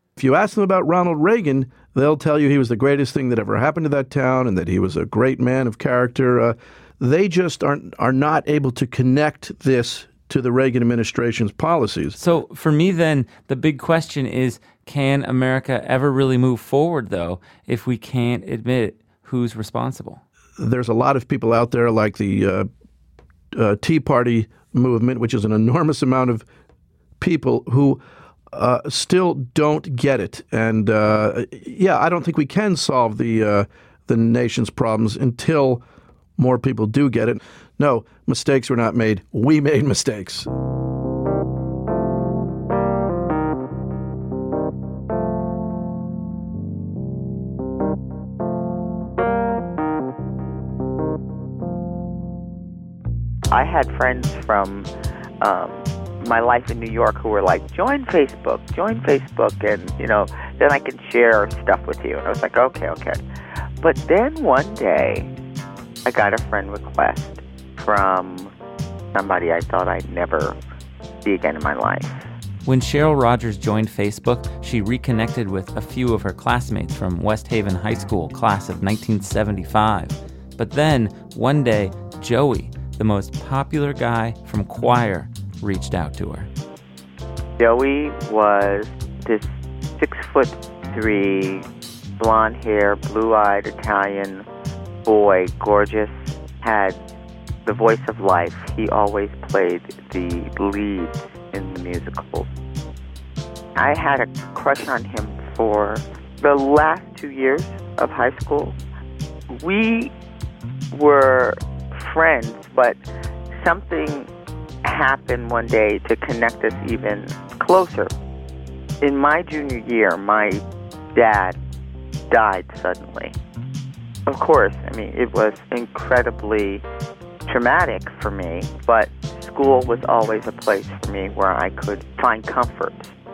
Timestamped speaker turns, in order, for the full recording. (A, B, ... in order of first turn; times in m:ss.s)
0:00.2-0:12.2 A
0:12.2-0:20.2 B
0:20.6-0:22.7 A
0:23.5-0:26.4 A
0:27.2-0:35.8 A
0:36.4-0:40.5 A
0:53.5-0:54.9 C
0:55.4-1:03.2 C
1:03.8-1:05.3 C
1:06.0-1:08.5 C
1:09.1-1:10.6 C
1:11.2-1:12.2 C
1:12.6-1:26.5 B
1:27.6-1:29.4 C
1:30.0-1:31.6 C
1:32.2-1:34.4 C
1:35.0-1:37.0 C
1:37.6-1:42.5 C
1:43.8-1:48.7 C
1:49.5-1:50.1 C
1:50.9-1:53.0 C
1:53.6-1:54.3 C
1:54.8-1:58.1 C
1:59.0-2:00.6 C
2:01.1-2:01.6 C
2:02.3-2:03.3 C
2:04.3-2:06.8 C
2:07.4-2:13.1 C